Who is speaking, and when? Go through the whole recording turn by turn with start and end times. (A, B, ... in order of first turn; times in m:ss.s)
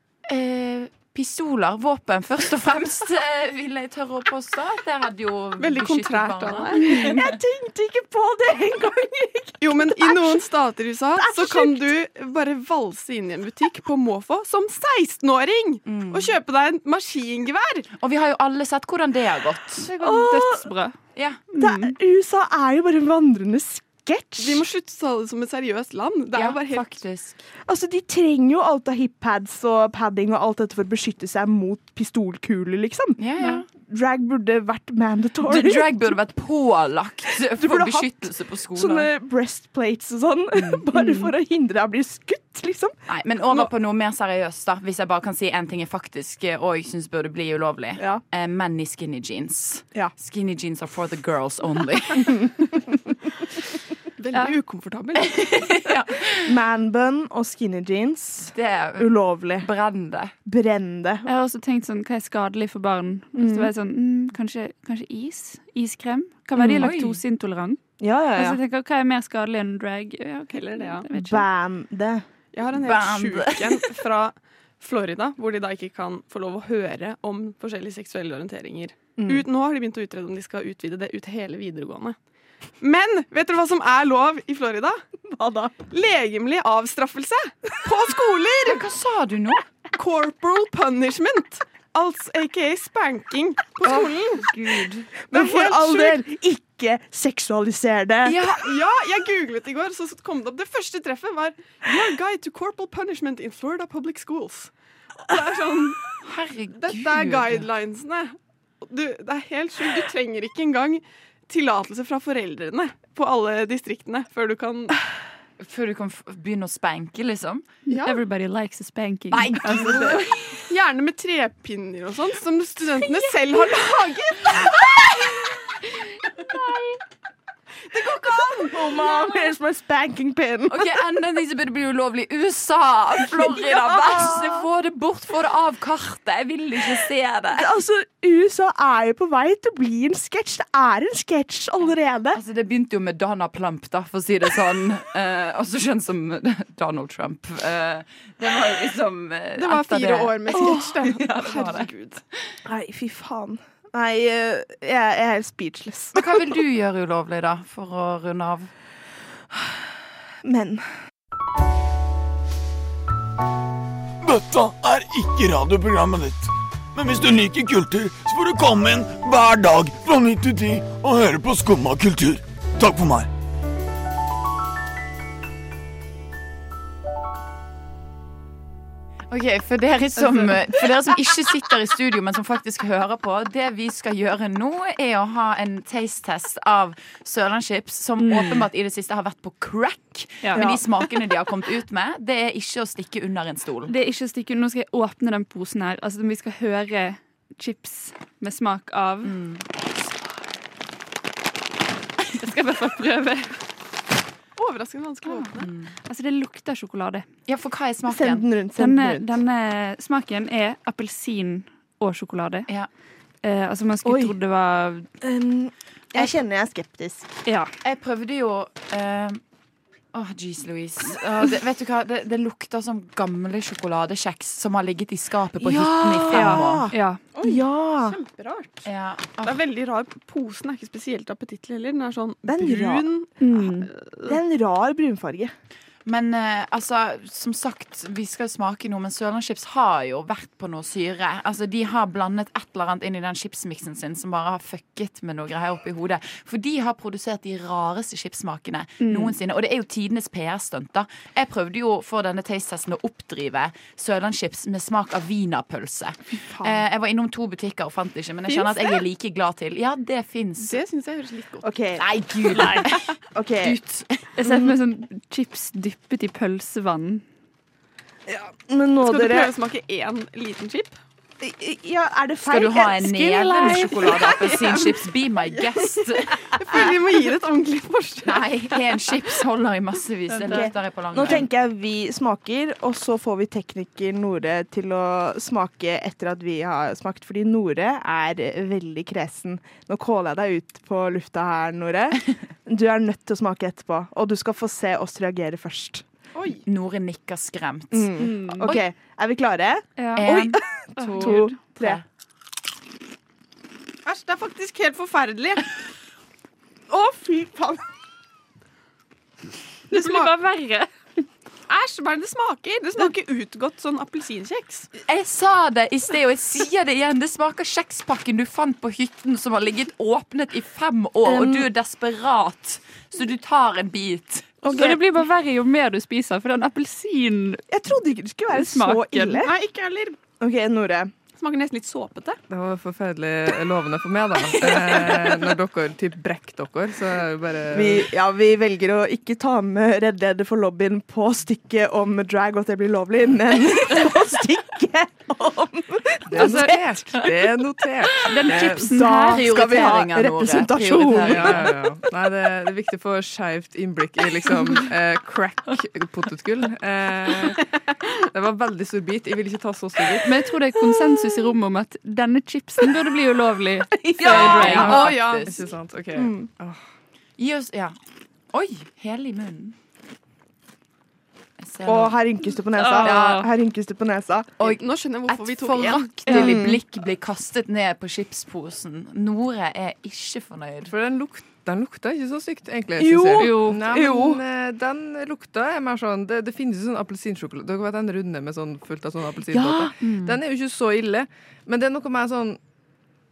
0:00.3-0:07.3 A
0:05.6-0:07.2 B
0:06.8-0:10.5 C
0:09.6-0:17.8 B
0:11.2-0:11.9 C
0:15.9-0:16.4 A
0:18.0-0:19.9 A
0:19.9-0:21.0 D
0:19.9-0:20.7 C
0:21.5-0:21.9 D
0:21.6-0:24.6 C
0:24.4-0:27.0 B
0:26.3-0:27.5 A
0:27.7-0:36.1 C
0:33.2-0:33.7 A
0:35.4-0:39.1 A
0:37.5-0:43.0 C
0:40.6-0:40.8 A
0:43.1-0:52.6 A
0:54.2-0:55.7 B
0:55.2-0:56.5 A
0:56.3-0:59.7 C
0:58.5-1:00.3 A
1:00.4-1:01.3 C
1:01.3-1:07.8 D
1:03.4-1:03.7 C
1:06.6-1:06.9 C
1:06.8-1:07.2 A
1:08.0-1:08.6 C
1:08.4-1:11.4 D
1:10.5-1:11.1 B
1:11.1-1:12.2 C
1:12.5-1:22.2 B
1:12.8-1:13.9 A
1:19.2-1:19.5 C
1:22.8-1:25.0 B
1:25.3-1:25.8 C
1:25.9-1:28.9 B
1:28.6-1:29.6 A
1:30.0-1:36.2 B
1:35.3-1:38.5 C
1:38.2-1:38.7 A
1:38.6-1:46.2 B
1:46.2-1:47.7 A
1:46.8-1:55.0 B
1:55.6-1:57.7 A
1:57.9-1:58.2 B
1:58.0-2:00.2 D
1:59.3-2:00.6 A
1:59.8-2:00.1 B
2:00.7-2:05.0 B
2:07.9-2:08.8 B
2:08.6-2:10.9 C
2:10.7-2:17.8 A
2:13.5-2:14.6 C
2:17.6-2:22.4 C
2:22.3-2:31.9 A
2:29.6-2:32.2 B
2:30.5-2:31.0 C
2:32.6-2:36.4 C
2:36.2-2:38.7 A
2:39.5-2:39.9 C
2:40.4-2:40.9 C
2:44.2-2:53.3 E
2:59.3-3:13.9 A
3:08.2-3:08.6 D
3:10.4-3:10.7 D
3:10.6-3:10.9 C
3:13.9-3:19.4 D
3:19.2-3:19.7 A
3:22.3-3:23.6 D
3:24.6-3:25.7 B
3:25.2-3:25.5 D
3:25.6-3:25.9 A
3:26.0-3:27.3 D
3:27.5-3:28.5 A
3:28.1-3:29.4 C
3:28.8-3:32.7 D
3:33.4-3:35.1 D
3:34.0-3:34.4 C
3:35.2-3:37.3 C
3:37.5-3:37.7 D
3:37.8-3:39.4 A
3:40.1-3:46.9 A
3:45.6-3:48.2 C
3:46.3-3:47.3 D
3:47.3-3:48.9 B
3:48.8-3:49.6 A
3:49.4-3:54.4 B
3:52.4-3:53.1 C
3:53.4-3:53.9 D
3:54.2-3:55.5 C
3:56.1-4:20.8 A
4:09.0-4:09.3 D
4:16.5-4:16.8 C
4:20.6-4:21.7 B
4:21.6-4:22.0 C
4:22.0-4:24.3 A
4:22.5-4:22.8 D
4:23.3-4:23.8 C
4:24.4-4:27.2 D
4:24.4-4:24.8 C
4:28.3-4:29.5 C
4:29.0-4:31.0 B
4:31.4-4:34.8 C
4:32.5-4:36.7 A
4:36.3-4:38.6 B
4:38.2-4:41.5 A
4:40.4-4:40.7 B
4:40.4-4:56.1 C
4:56.3-4:56.6 B
4:56.7-4:58.2 A
4:57.9-5:02.0 C
4:58.2-4:58.8 D
5:00.0-5:01.6 D
5:00.2-5:00.6 A
5:01.3-5:02.0 A
5:04.0-5:05.7 B
5:06.9-5:07.8 C
5:09.9-5:10.9 D
5:10.0-5:10.3 B
5:11.7-5:14.9 B
5:15.1-5:24.6 A
5:21.2-5:21.7 C
5:24.6-5:27.6 D
5:27.7-5:29.6 C
5:28.5-5:29.4 D
5:29.4-5:30.2 B
5:30.4-5:31.1 C
5:31.4-5:32.4 B
5:32.5-5:38.1 F
5:37.7-5:46.7 C
5:46.3-5:48.9 F
5:46.4-5:47.3 D
5:48.2-5:49.4 D
5:48.9-5:51.7 C
5:49.3-5:51.7 A
5:51.2-5:57.6 F
5:58.3-6:00.5 F
6:00.2-6:05.0 D
6:04.3-6:05.7 A
6:04.4-6:06.8 F
6:04.9-6:05.6 B
6:06.2-6:06.5 C
6:07.4-6:08.0 A
6:08.5-6:09.8 A
6:11.6-6:12.2 A
6:11.8-6:14.5 C
6:12.8-6:13.5 D
6:13.0-6:13.4 A
6:14.6-6:20.9 A
6:14.6-6:16.6 B
6:16.3-6:16.8 C
6:20.9-6:32.6 F
6:23.0-6:24.4 C
6:23.4-6:23.8 D
6:29.5-6:30.2 C